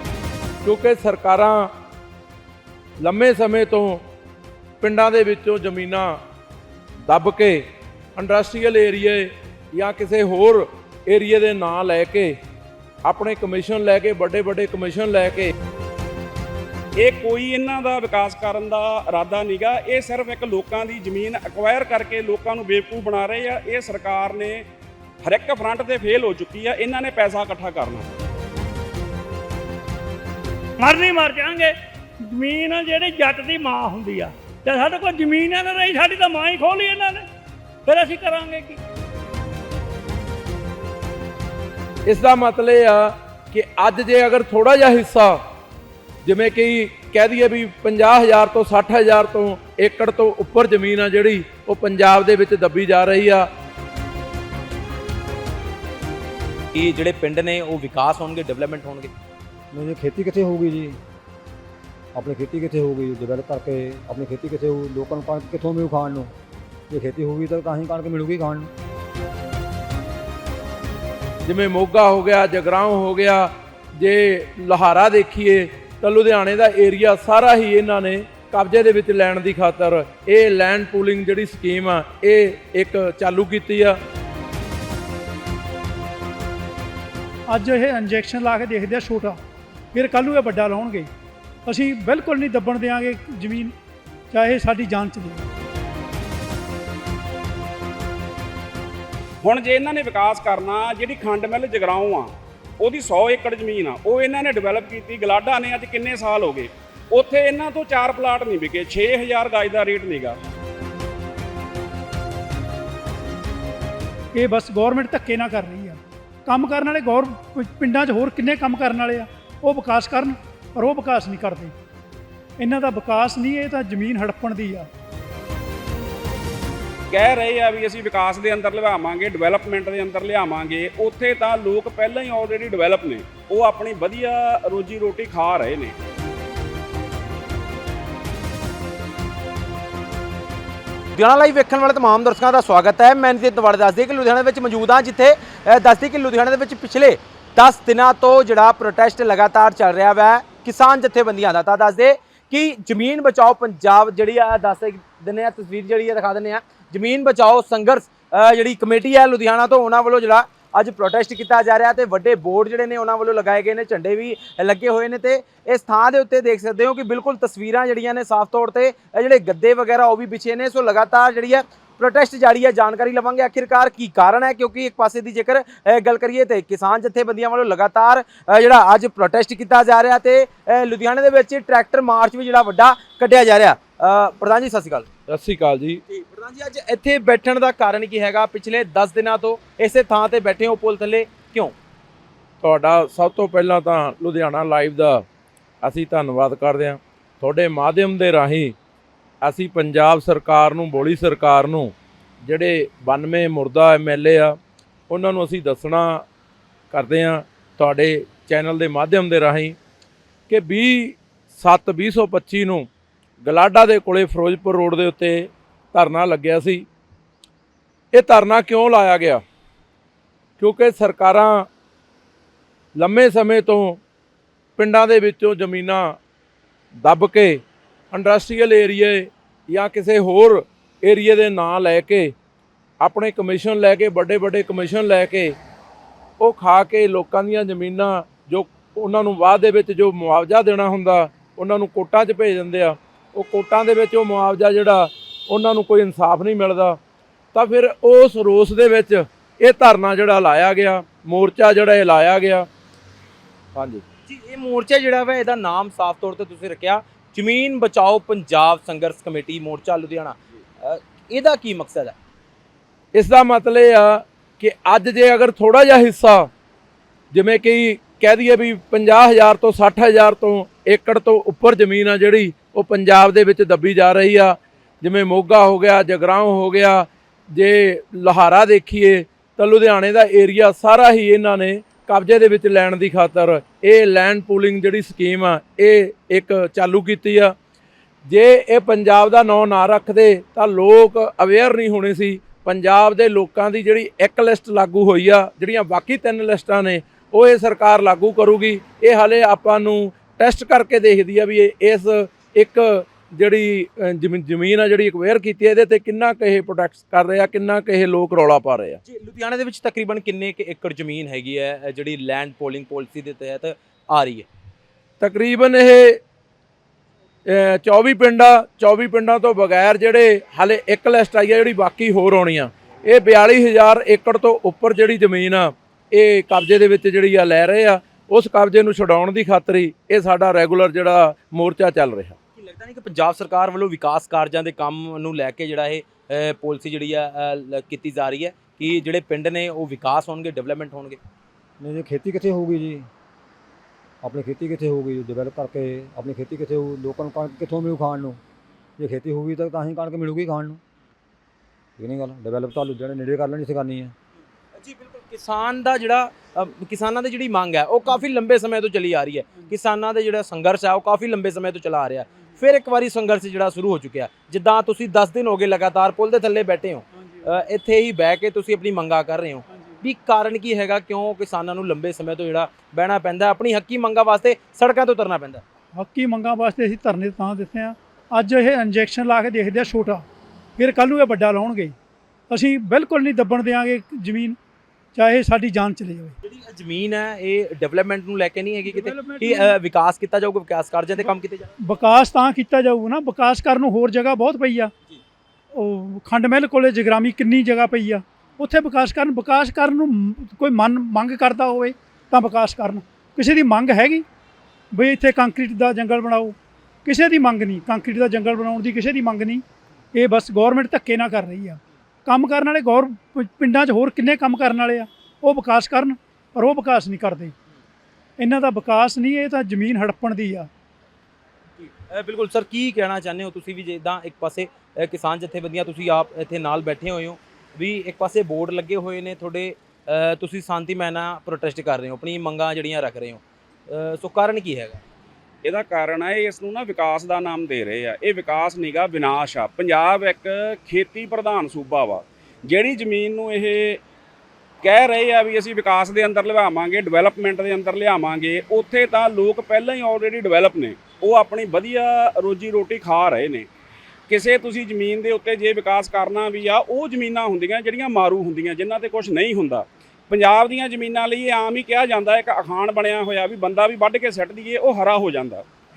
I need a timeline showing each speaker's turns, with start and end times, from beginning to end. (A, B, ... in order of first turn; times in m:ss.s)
0:00.6-0:01.7 A
0:03.0-0:04.0 A
0:04.8-0:06.2 A
0:07.0-0:12.4 A
0:13.0-0:15.5 A
0:17.0-0:24.7 B
0:25.2-0:28.1 B
0:30.8-0:31.7 C
0:32.3-0:37.2 C
0:37.8-0:38.7 C
0:38.5-0:38.7 D
0:42.0-0:45.4 A
0:46.2-0:53.5 A
0:56.7-0:59.1 E
0:59.7-1:01.0 F
1:02.1-1:06.3 F
1:06.9-1:08.7 F
1:11.4-1:24.0 A
1:27.5-1:29.4 D
1:29.9-1:31.1 D
1:31.6-1:33.7 D
1:34.3-1:35.5 D
1:39.4-1:50.4 B
1:54.3-2:01.7 D
2:02.6-2:04.9 D
2:07.1-2:15.9 B
2:21.1-3:05.1 E
3:05.3-3:06.0 A
3:06.1-3:11.7 E
3:12.6-3:15.2 A
3:15.8-3:18.8 A
3:19.4-3:24.6 A
3:25.1-3:26.2 A
3:26.9-3:29.8 A
3:30.5-3:32.9 A
3:33.4-3:36.9 A
3:38.1-3:39.4 A
3:40.6-3:41.7 A
3:43.0-3:44.0 A
3:44.8-3:46.2 A
3:47.0-3:52.3 A
3:53.0-3:55.6 A
3:56.4-4:07.0 A
4:07.5-4:12.7 A
4:13.7-4:14.0 A
4:14.3-4:22.1 E
4:23.1-4:26.5 A
4:27.3-4:47.5 A
4:48.2-5:09.0 A
5:09.0-5:14.5 E
5:15.2-5:16.2 A
5:17.4-5:32.4 A
5:32.6-5:41.2 E
5:41.8-5:43.1 F
5:44.2-5:48.4 F
5:49.0-5:50.8 F
5:52.0-5:54.1 F
5:54.8-6:15.6 E
6:16.0-6:20.2 D
6:20.8-6:21.9 D
6:22.5-6:24.6 D
6:25.1-6:26.4 D
6:26.4-6:31.7 E
6:28.8-6:29.8 D
6:31.8-6:34.9 D
6:35.7-6:44.2 D
6:44.9-6:49.6 D
6:50.1-6:57.5 D
6:58.4-7:00.7 D
7:01.9-7:15.0 E
7:15.6-7:24.0 B
7:24.8-7:33.7 B
7:34.3-7:45.6 B